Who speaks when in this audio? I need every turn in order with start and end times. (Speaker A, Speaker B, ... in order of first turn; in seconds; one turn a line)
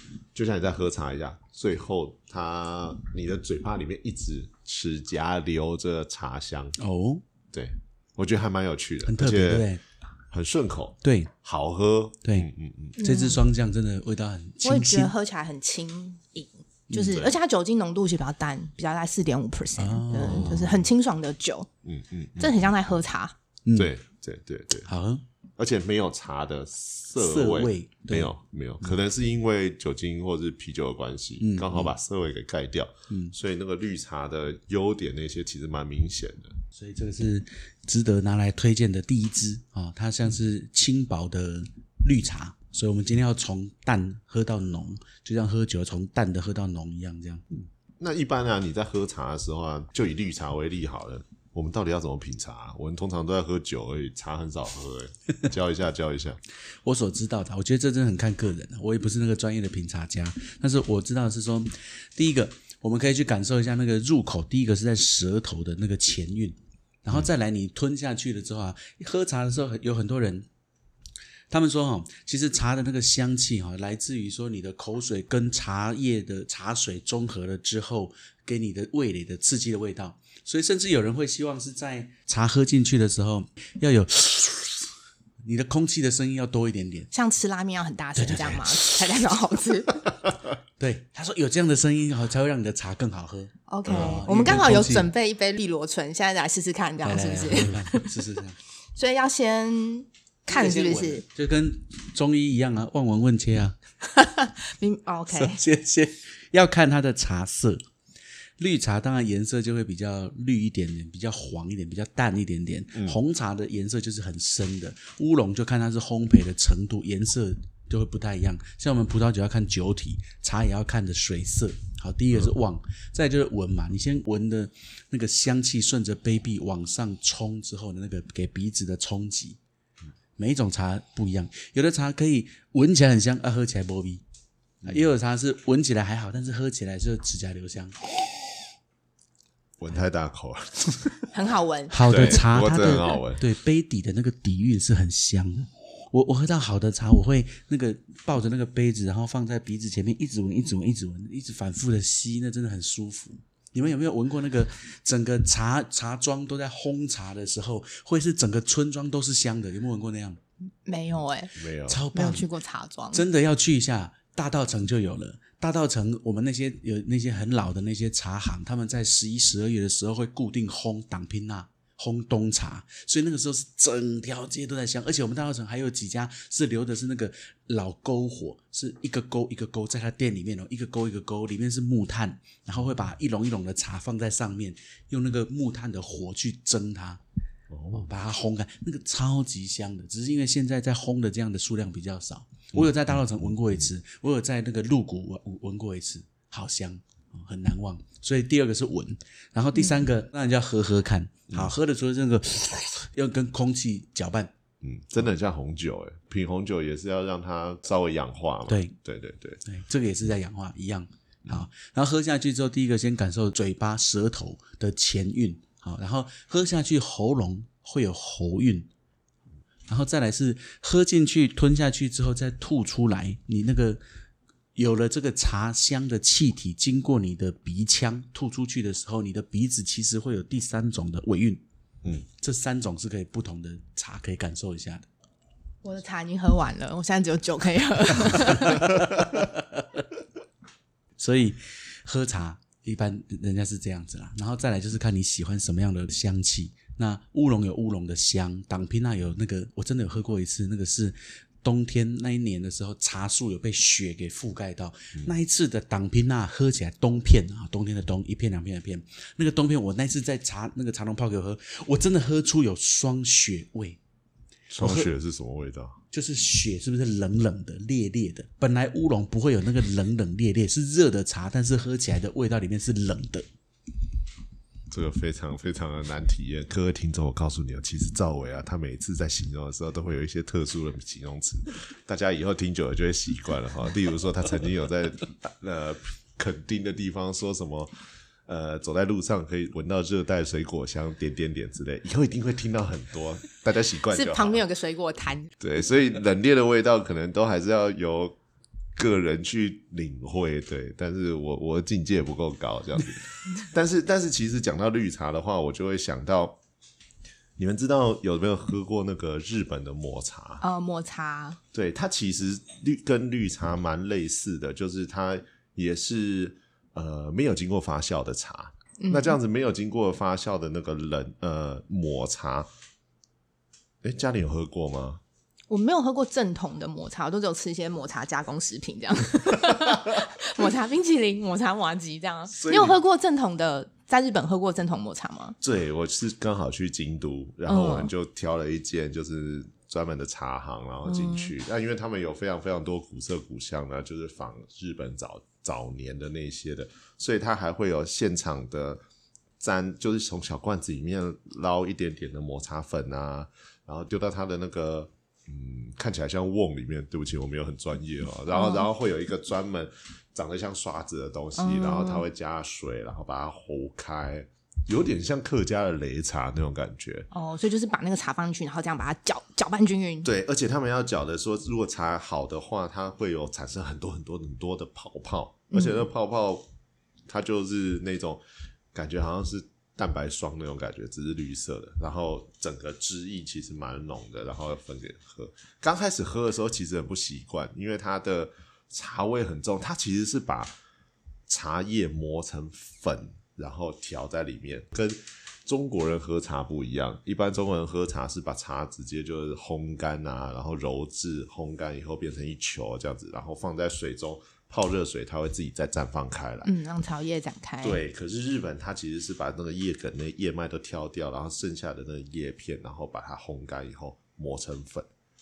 Speaker A: 0.3-6.8
Speaker B: 6.8-7.2
Speaker A: 7.5-9.7
Speaker B: 9.0-9.8
Speaker A: 10.3-13.0
Speaker B: 11.0-11.3
Speaker B: 12.2-15.1
Speaker C: 13.0-13.4
Speaker C: 14.6-21.7
Speaker B: 16.9-17.2
Speaker B: 19.8-20.6
Speaker A: 20.2-20.9
Speaker A: 21.8-22.7
Speaker C: 22.4-23.3
Speaker B: 23.6-23.9
Speaker A: 23.8-24.9
Speaker B: 24.9-25.2
Speaker A: 25.6-36.6
Speaker B: 27.2-28.9
Speaker B: 31.4-31.9
Speaker B: 33.1-33.3
Speaker B: 36.8-47.6
Speaker A: 48.0-56.4
Speaker B: 56.8-70.5
Speaker B: 71.5-84.9
Speaker B: 85.5-87.1
Speaker C: 87.1-89.9
Speaker B: 88.2-89.0
Speaker B: 90.8-95.1
Speaker C: 93.7-98.1
Speaker A: 93.9-94.2
Speaker B: 97.0-98.6
Speaker C: 99.0-101.2
Speaker B: 100.5-103.8
Speaker C: 104.0-105.6
Speaker B: 105.3-107.8
Speaker B: 108.6-129.6
Speaker B: 130.4-134.2
Speaker B: 134.8-137.9
Speaker A: 139.8-141.2
Speaker C: 141.3-141.9
Speaker B: 141.9-160.4
Speaker A: 142.1-143.4
Speaker C: 160.8-161.6
Speaker A: 161.6-162.0
Speaker B: 161.9-162.5
Speaker C: 162.1-163.2
Speaker B: 163.1-187.2
Speaker A: 187.7-188.1
Speaker B: 187.9-204.5
Speaker A: 204.8-209.6
Speaker B: 208.7-208.9
Speaker B: 209.6-218.9
Speaker B: 219.9-224.0
Speaker B: 224.8-231.6
Speaker B: 232.4-235.1
Speaker C: 235.8-238.9
Speaker B: 238.7-239.8
Speaker B: 241.2-264.0
Speaker A: 264.7-266.0
Speaker B: 264.8-265.1
Speaker B: 266.1-273.4
Speaker A: 274.9-287.9
Speaker A: 288.4-294.6
Speaker C: 294.1-295.6
Speaker A: 295.6-298.4
Speaker A: 298.9-306.6
Speaker A: 307.6-310.6
Speaker C: 310.6-311.6
Speaker A: 311.7-322.7
Speaker C: 319.0-319.4
Speaker A: 324.0-325.2
Speaker C: 325.7-335.6
Speaker A: 332.5-333.0
Speaker A: 335.6-349.0
Speaker C: 337.7-338.1
Speaker C: 341.0-341.5
Speaker A: 349.6-367.3
Speaker C: 358.5-358.9
Speaker C: 361.6-362.2
Speaker C: 367.3-370.3
Speaker A: 370.2-376.7
Speaker C: 375.7-376.1
Speaker A: 377.3-378.4
Speaker A: 378.9-390.7
Speaker A: 391.5-406.7
Speaker C: 406.6-408.0
Speaker A: 407.8-415.1